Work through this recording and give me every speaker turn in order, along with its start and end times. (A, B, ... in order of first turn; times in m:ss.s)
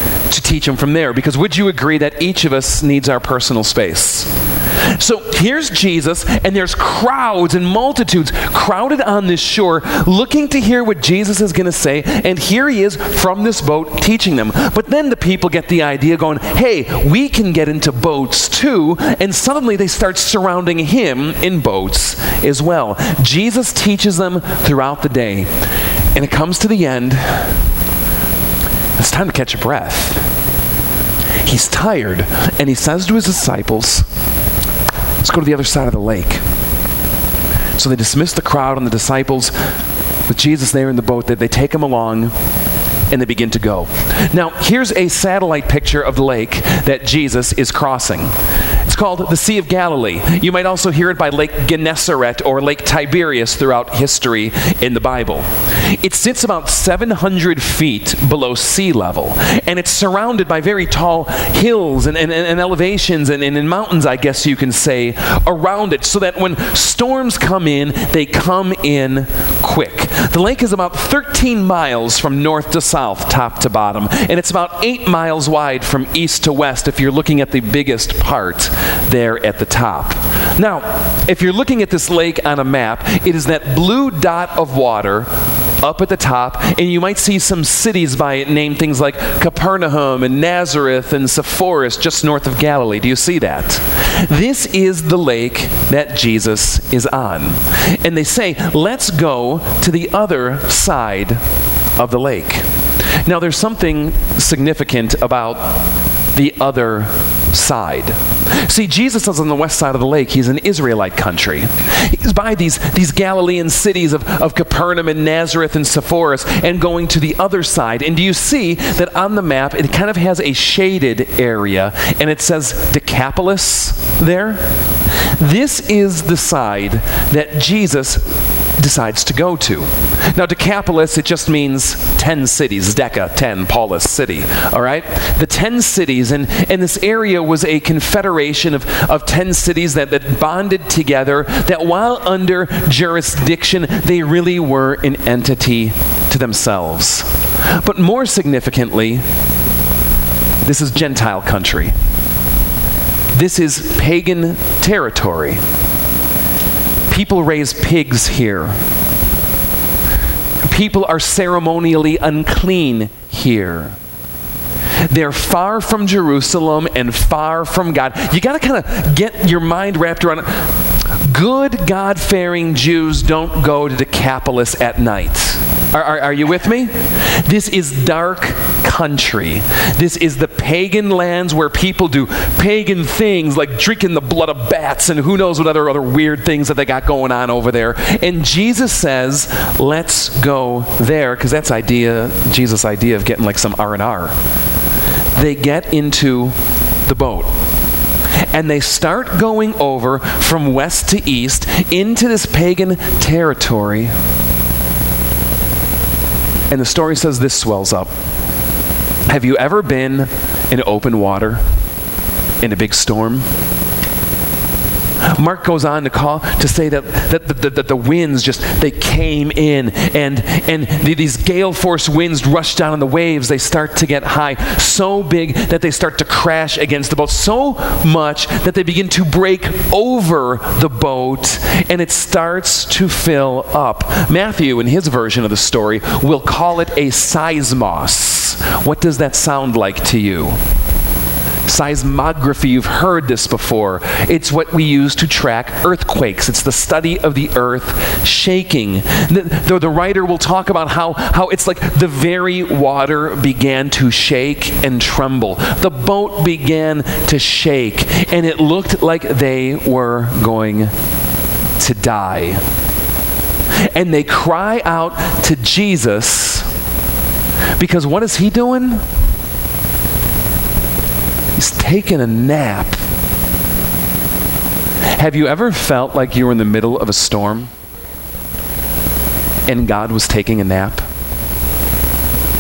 0:00.3-0:04.3 A
0:05.0-0:25.5 A
0:26.1-0:27.6 A
0:29.0-0:30.2 A
0:31.4-0:34.1 A
0:35.2-0:36.4 A
0:37.8-0:39.5 A
0:40.3-0:42.3 A
0:43.1-1:25.3 A
1:25.8-1:41.4 A
1:42.0-1:42.7 A
1:43.2-2:04.6 A
2:05.4-2:08.2 A
2:08.8-2:29.2 A
2:30.6-2:31.9 A
2:33.3-2:35.6 A
2:37.1-2:38.8 A
2:40.6-2:44.0 A
2:45.1-3:14.4 A
3:15.4-3:16.5 A
3:17.0-3:17.5 A
3:18.5-3:24.1 A
3:26.7-3:28.1 A
3:29.3-3:31.6 A
3:32.6-3:33.5 A
3:35.2-4:00.6 A
4:01.7-4:20.9 A
4:21.8-4:22.6 A
4:23.9-4:26.7 A
4:27.8-4:29.0 A
4:31.6-4:33.0 A
4:35.2-4:37.7 A
4:39.7-4:41.1 A